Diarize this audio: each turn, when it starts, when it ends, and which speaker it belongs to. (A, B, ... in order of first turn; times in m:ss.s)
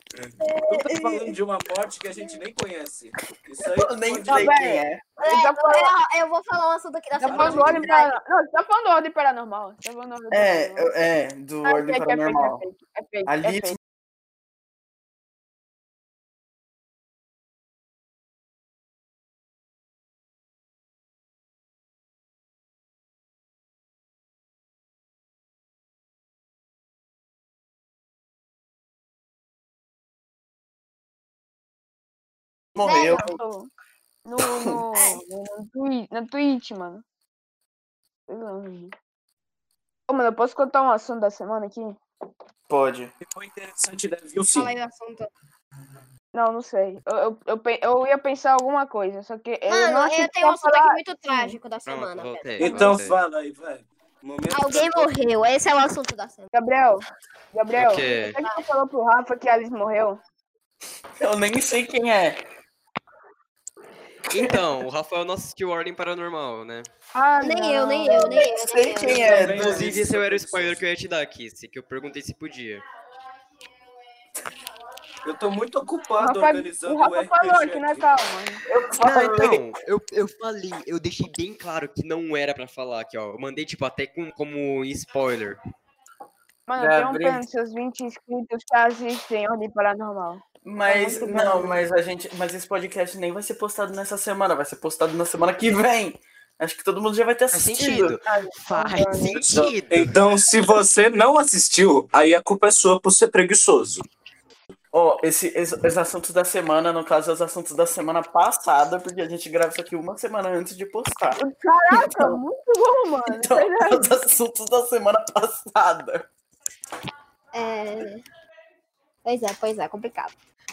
0:00.1-0:04.5 A
0:00.4-0:01.2 B
0:03.6-0:05.0 C
0:04.2-0:05.9 D
0:05.2-0:08.1 B
0:07.2-0:10.9 D
0:07.2-0:07.9 A
0:10.3-0:12.6 C
0:11.6-0:13.8 D
0:13.3-0:13.8 C
0:32.7-0:33.3 C
0:32.8-0:33.3 B
0:32.8-0:33.7 D
0:34.2-0:37.0 D
0:34.4-0:34.8 C
0:34.9-0:35.2 B
0:38.3-0:38.9 D
0:40.1-0:42.0 D
0:42.7-0:43.1 C
0:43.2-0:44.7 A
0:44.5-0:45.3 B
0:46.3-0:51.6 D
0:49.7-0:52.9 B
0:51.9-0:53.2 E
0:52.6-0:55.1 A
0:54.5-0:56.5 B
0:56.5-1:00.2 D
0:57.8-0:58.4 E
0:58.0-0:58.6 B
1:01.2-1:02.4 C
1:04.3-1:06.9 E
1:07.1-1:08.5 D
1:07.4-1:09.6 B
1:08.1-1:09.9 C
1:09.0-1:10.8 A
1:09.5-1:12.8 E
1:15.2-1:18.1 A
1:16.2-1:18.6 D
1:18.6-1:19.6 C
1:19.0-1:25.6 E
1:26.7-1:31.8 D
1:26.8-1:27.4 C
1:30.6-1:38.2 C
1:37.5-1:40.1 E
1:38.2-1:39.4 D
1:39.5-1:44.1 A
1:44.9-1:52.4 C
1:51.4-1:54.1 D
1:53.3-1:56.3 C
1:57.5-1:58.2 B
1:59.2-2:00.3 B